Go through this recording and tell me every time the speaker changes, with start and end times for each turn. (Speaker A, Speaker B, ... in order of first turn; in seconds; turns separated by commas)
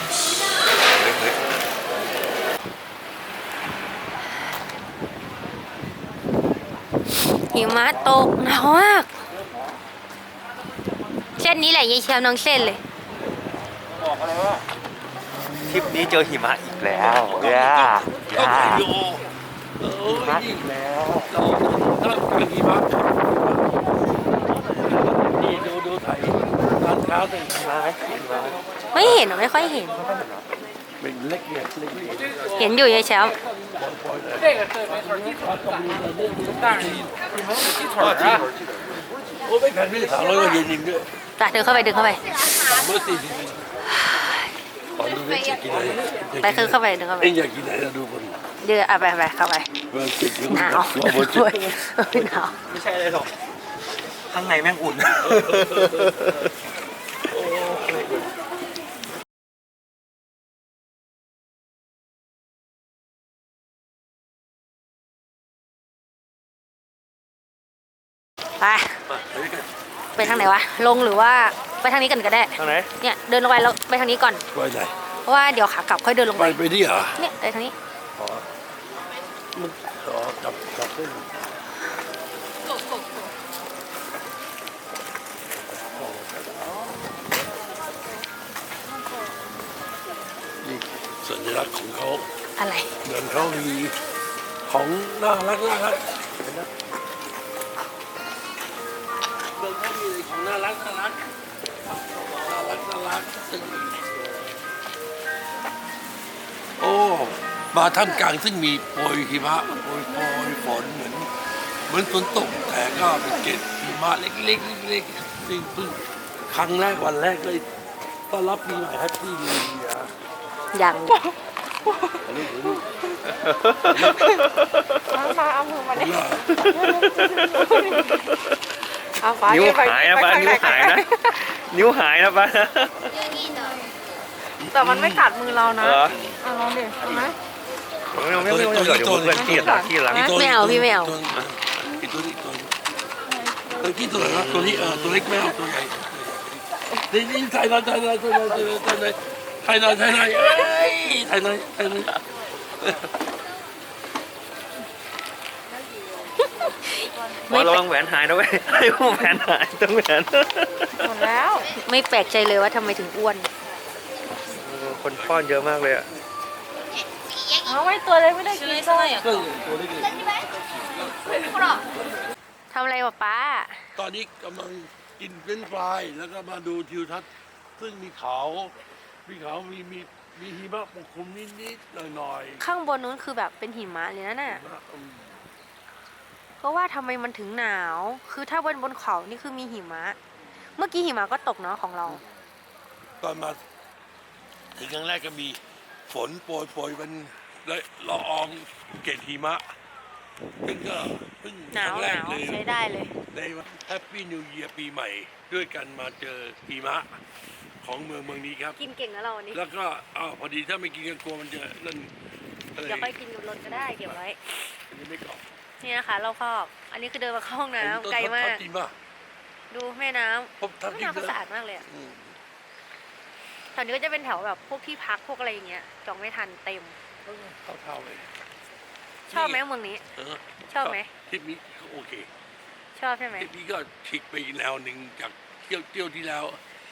Speaker A: 0.9-1.4, Speaker B: 7.5-9.1, Speaker B: 11.4-12.8, Speaker A: 15.7-18.9, Speaker C: 17.2-19.2, Speaker C: 19.8-23.7, Speaker A: 20.1-21.0, Speaker C: 25.2-27.7, Speaker A: 27.5-28.6, Speaker B: 28.9-30.0, Speaker C: 31.0-32.5, Speaker B: 32.5-33.4, Speaker C: 33.6-37.2, Speaker C: 37.8-38.5, Speaker C: 39.4-41.1, Speaker B: 41.4-42.2, Speaker C: 42.6-43.7, Speaker C: 45.0-48.4, Speaker B: 46.4-47.4, Speaker B: 48.6-49.7, Speaker C: 49.9-51.8, Speaker B: 50.5-52.6, Speaker A: 52.7-53.3, Speaker A: 54.3-56.5, Speaker C: 55.1-56.2, Speaker C: 57.3-58.3, Speaker B: 68.6-69.0, Speaker C: 69.1-70.5, Speaker B: 70.2-74.4, Speaker A: 72.6-72.9, Speaker C: 74.5-75.0, Speaker B: 75.2-76.6, Speaker C: 76.3-77.2, Speaker B: 77.2-77.7, Speaker C: 78.2-78.5, Speaker C: 79.5-81.3, Speaker C: 85.9-86.9, Speaker C: 90.6-92.3, Speaker B: 92.6-92.9, Speaker C: 93.0-93.9, Speaker C: 94.7-96.7, Speaker C: 99.5-101.2, Speaker C: 102.1-104.0, Speaker C: 106.8-111.3, Speaker C: 111.9-117.7, Speaker C: 118.3-120.1, Speaker B: 120.7-121.2, Speaker C: 122.2-122.8, Speaker A: 123.2-125.3, Speaker C: 123.9-124.4, Speaker D: 125.2-126.0, Speaker C: 125.9-126.6, Speaker A: 126.5-128.4, Speaker D: 129.2-131.0, Speaker A: 129.4-133.1, Speaker C: 134.6-136.4, Speaker D: 134.8-137.3, Speaker A: 135.8-136.2, Speaker A: 137.0-137.3, Speaker C: 138.1-142.7, Speaker A: 138.1-140.3, Speaker D: 139.5-139.9, Speaker B: 140.1-141.2, Speaker C: 143.6-152.2, Speaker A: 144.2-145.3, Speaker B: 156.6-157.8, Speaker A: 157.5-161.1, Speaker D: 161.0-161.6, Speaker B: 161.5-163.5, Speaker A: 164.5-166.1, Speaker C: 165.1-165.6, Speaker B: 167.4-169.2, Speaker D: 167.8-169.1, Speaker C: 169.1-171.8, Speaker B: 172.7-173.8, Speaker C: 173.9-182.6, Speaker B: 182.6-184.6, Speaker C: 184.4-185.4, Speaker B: 186.6-190.2, Speaker B: 190.8-192.2, Speaker C: 193.2-193.6, Speaker C: 194.8-199.7, Speaker C: 200.6-202.6, Speaker B: 201.7-203.1, Speaker C: 203.3-207.2, Speaker C: 207.8-208.8, Speaker B: 208.8-209.6, Speaker C: 209.5-212.1, Speaker C: 212.8-215.4, Speaker B: 212.8-214.3, Speaker B: 215.8-218.6, Speaker C: 217.8-218.9, Speaker B: 219.7-221.8, Speaker C: 220.6-222.3, Speaker B: 223.7-227.0, Speaker C: 227.2-228.3, Speaker B: 229.3-230.0, Speaker C: 229.3-229.6, Speaker C: 230.2-232.3, Speaker B: 230.7-231.1, Speaker B: 233.0-233.5, Speaker C: 233.4-236.6